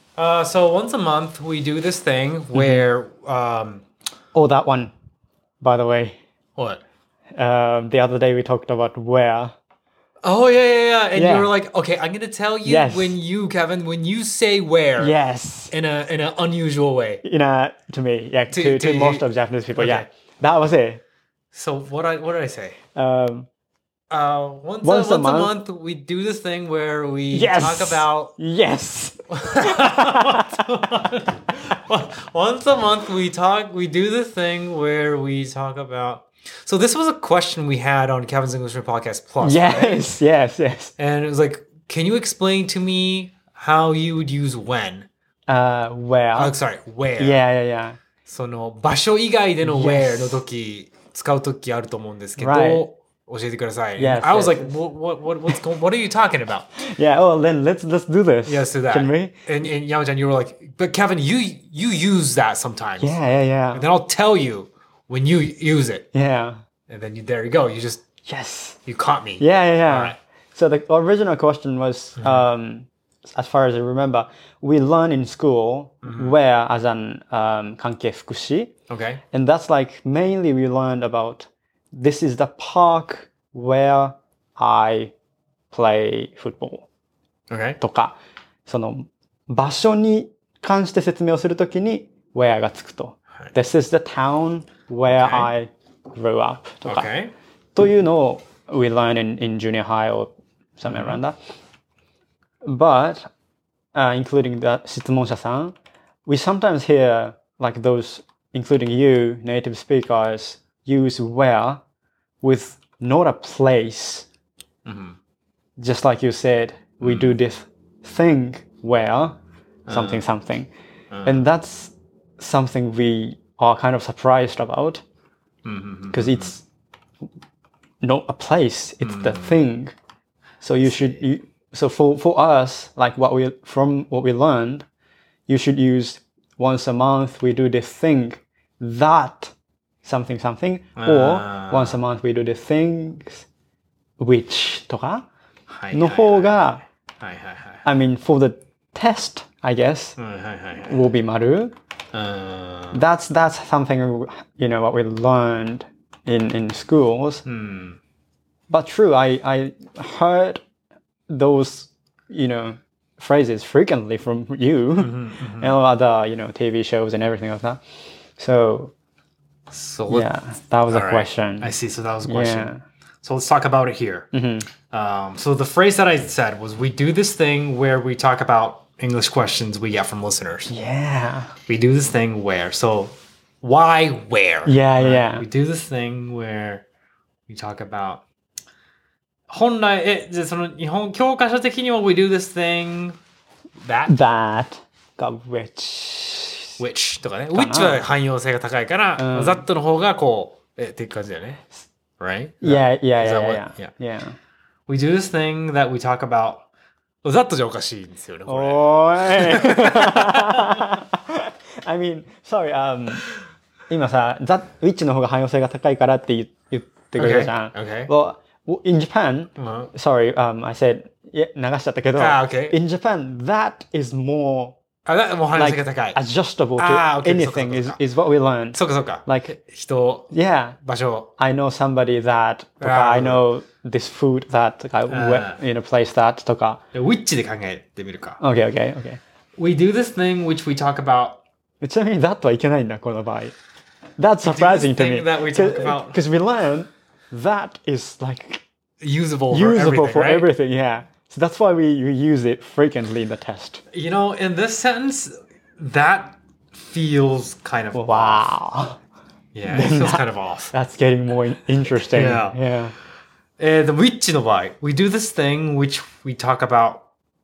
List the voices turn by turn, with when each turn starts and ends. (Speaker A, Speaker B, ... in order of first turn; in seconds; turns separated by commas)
Speaker A: 0.2-3.9, Speaker B: 2.5-2.9, Speaker B: 4.3-4.9, Speaker B: 5.6-6.2, Speaker A: 6.6-6.8, Speaker B: 7.4-9.6, Speaker A: 10.2-15.2, Speaker B: 11.1-11.6, Speaker B: 12.6-13.2, Speaker B: 15.0-15.7, Speaker A: 15.7-17.2, Speaker B: 17.2-21.0, Speaker A: 18.5-20.1, Speaker A: 21.5-22.8, Speaker B: 22.9-23.5, Speaker A: 24.1-28.4, Speaker B: 24.8-25.6, Speaker B: 27.3-30.6, Speaker A: 29.3-40.1, Speaker B: 39.4-41.0, Speaker A: 41.0-45.1, Speaker B: 45.5-46.6, Speaker A: 46.4-47.4, Speaker B: 47.2-48.0, Speaker A: 48.2-56.8, Speaker B: 49.6-50.5, Speaker B: 52.4-52.9, Speaker B: 54.0-54.8, Speaker B: 56.8-59.4, Speaker A: 58.5-63.2, Speaker B: 63.0-63.9, Speaker A: 63.7-66.1, Speaker B: 66.1-66.6, Speaker A: 66.9-68.0, Speaker B: 68.2-68.8, Speaker A: 68.8-70.2, Speaker B: 69.4-78.7, Speaker A: 72.2-72.5, Speaker A: 76.0-76.4, Speaker A: 78.9-79.2, Speaker B: 79.3-85.1, Speaker B: 85.7-86.9, Speaker A: 87.5-87.8, Speaker B: 87.8-97.1, Speaker A: 95.1-95.5, Speaker A: 96.9-97.3, Speaker B: 97.8-101.4, Speaker A: 100.9-101.2, Speaker B: 102.6-103.3, Speaker B: 104.0-111.8, Speaker B: 112.4-114.3, Speaker A: 114.8-115.2, Speaker B: 115.8-120.7, Speaker A: 117.0-117.3, Speaker A: 119.9-120.3, Speaker A: 121.1-121.5, Speaker B: 121.3-125.0, Speaker A: 125.7-126.5, Speaker B: 126.1-126.7, Speaker B: 128.0-129.9, Speaker A: 129.0-129.5, Speaker B: 130.6-134.8, Speaker A: 130.9-131.2, Speaker B: 135.5-139.5, Speaker B: 140.0-143.4, Speaker A: 141.0-142.0, Speaker B: 144.2-145.3, Speaker A: 145.7-146.7, Speaker B: 145.9-146.8, Speaker A: 147.2-147.9, Speaker B: 147.8-150.2, Speaker A: 150.2-151.1, Speaker B: 150.9-151.7, Speaker A: 152.1-153.0, Speaker B: 152.9-157.4, Speaker A: 157.4-158.0, Speaker B: 158.7-160.6, Speaker B: 161.3-167.8, Speaker A: 165.0-165.8, Speaker B: 168.4-168.9, Speaker A: 169.7-170.3, Speaker B: 170.1-172.8, Speaker A: 170.9-174.3, Speaker B: 174.3-174.7, Speaker A: 174.9-180.7, Speaker B: 180.7-181.5, Speaker A: 181.7-186.8, Speaker B: 184.7-185.5, Speaker A: 187.5-188.2, Speaker A: 189.5-193.2, Speaker A: 193.8-194.2, Speaker B: 194.1-196.8, Speaker A: 196.8-201.7, Speaker B: 197.5-198.1, Speaker B: 199.2-199.7, Speaker A: 202.2-203.9, Speaker B: 202.6-204.3, Speaker A: 204.9-206.7, Speaker A: 207.2-210.5, Speaker B: 208.5-213.3, Speaker B: 213.9-224.8, Speaker A: 217.2-218.1, Speaker A: 219.6-219.9, Speaker A: 222.2-222.8, Speaker A: 225.1-226.2, Speaker B: 225.5-229.5, Speaker A: 226.8-228.0, Speaker A: 228.7-230.3, Speaker B: 230.3-230.8, Speaker A: 230.8-231.3, Speaker B: 231.4-236.8, Speaker A: 232.8-233.4, Speaker A: 235.1-235.6, Speaker A: 236.9-238.4, Speaker B: 238.4-239.2, Speaker A: 239.6-241.4, Speaker B: 241.8-243.6, Speaker B: 244.2-248.6, Speaker A: 244.4-246.2, Speaker A: 249.0-250.5, Speaker B: 249.5-253.8, Speaker A: 253.9-258.5, Speaker B: 257.9-259.0, Speaker A: 259.5-260.7, Speaker B: 259.6-262.9, Speaker A: 262.1-262.6, Speaker A: 263.6-267.1